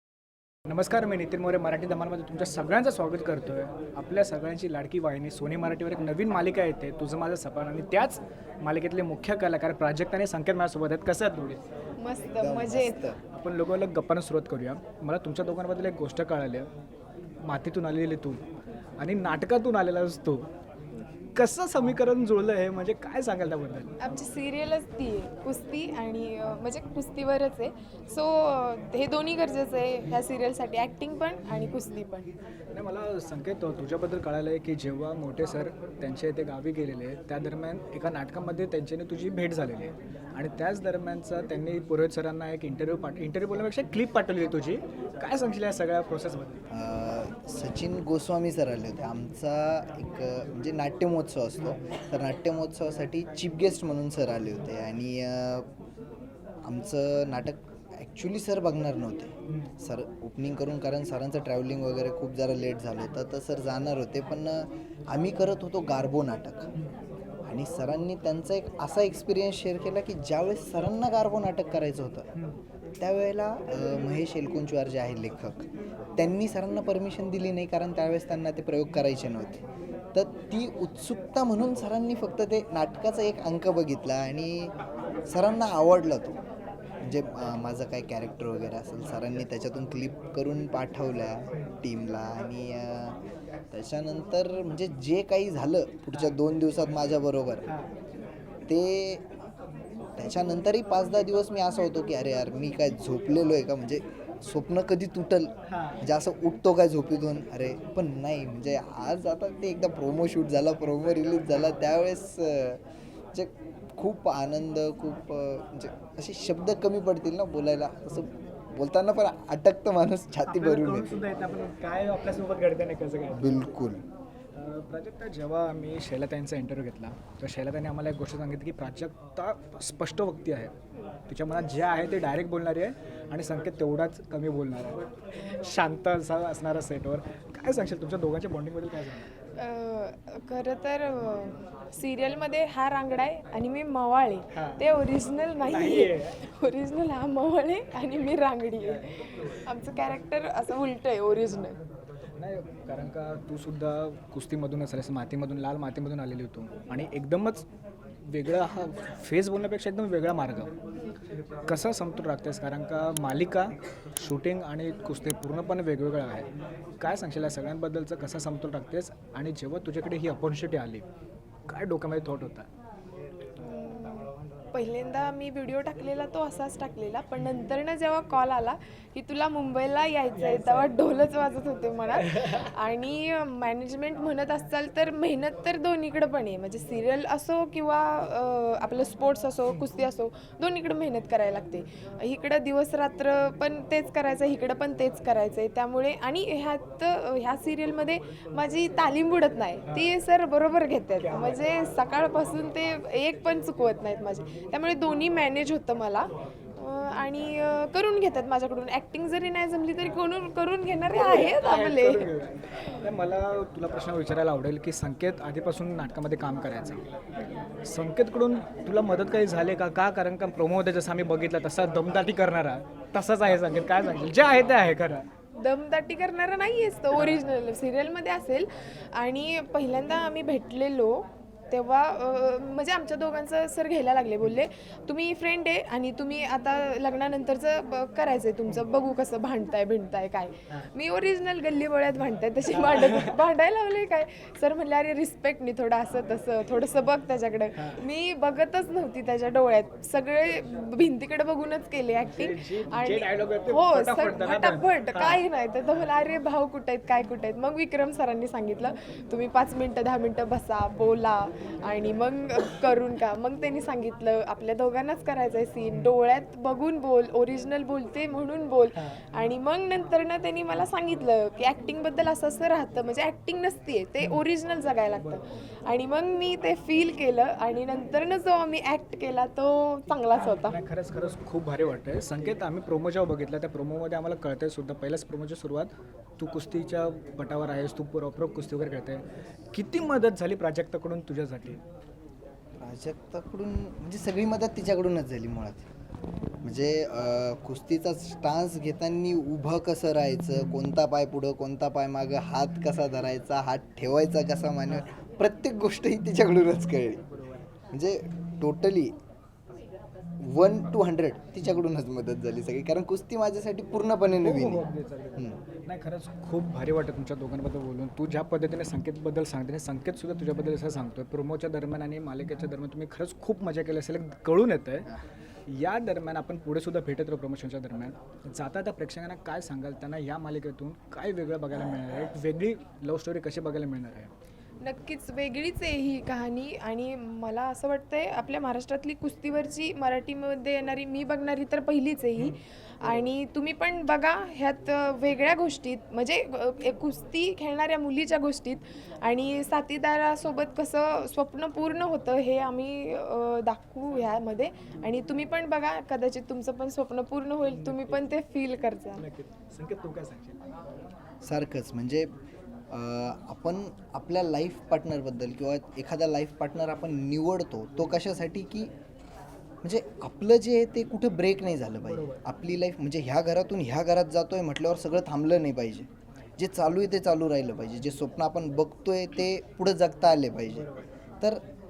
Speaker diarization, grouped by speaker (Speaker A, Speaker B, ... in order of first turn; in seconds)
Speaker A: 0.7-11.6, 13.3-16.7, 17.4-18.4, 19.0-20.5, 21.4-23.9, 32.7-46.6, 97.6-97.9, 105.7-106.0, 120.5-123.7, 124.5-130.7, 131.3-139.3, 144.5-144.8, 145.7-146.4, 152.4-157.7, 158.2-160.7, 161.7-166.5, 167.0-171.0, 171.7-172.7, 180.3-180.9, 182.2-182.7, 199.8-200.1, 201.2-201.6, 211.1-217.0, 217.8-225.2, 242.7-243.4, 247.7-248.0, 252.3-255.4, 275.1-275.4, 280.3-291.8, 314.3-325.1, 325.7-334.3, 357.6-358.3, 359.1-360.6, 372.0-372.4, 380.7-381.1
Speaker B: 12.0-13.0, 24.0-32.3, 139.5-151.8, 173.6-212.3, 225.6-280.8, 334.8-359.2
Speaker C: 12.3-13.2, 46.7-55.7, 56.6-66.7, 67.5-72.2, 73.0-75.6, 76.2-79.6, 80.1-84.7, 85.3-86.4, 87.0-93.2, 93.7-97.7, 98.7-99.2, 100.2-112.8, 113.3-121.1, 123.3-124.0, 292.8-295.9, 296.6-307.2, 307.9-309.1, 310.4-314.8, 361.4-362.3, 362.9-368.9, 369.8-380.9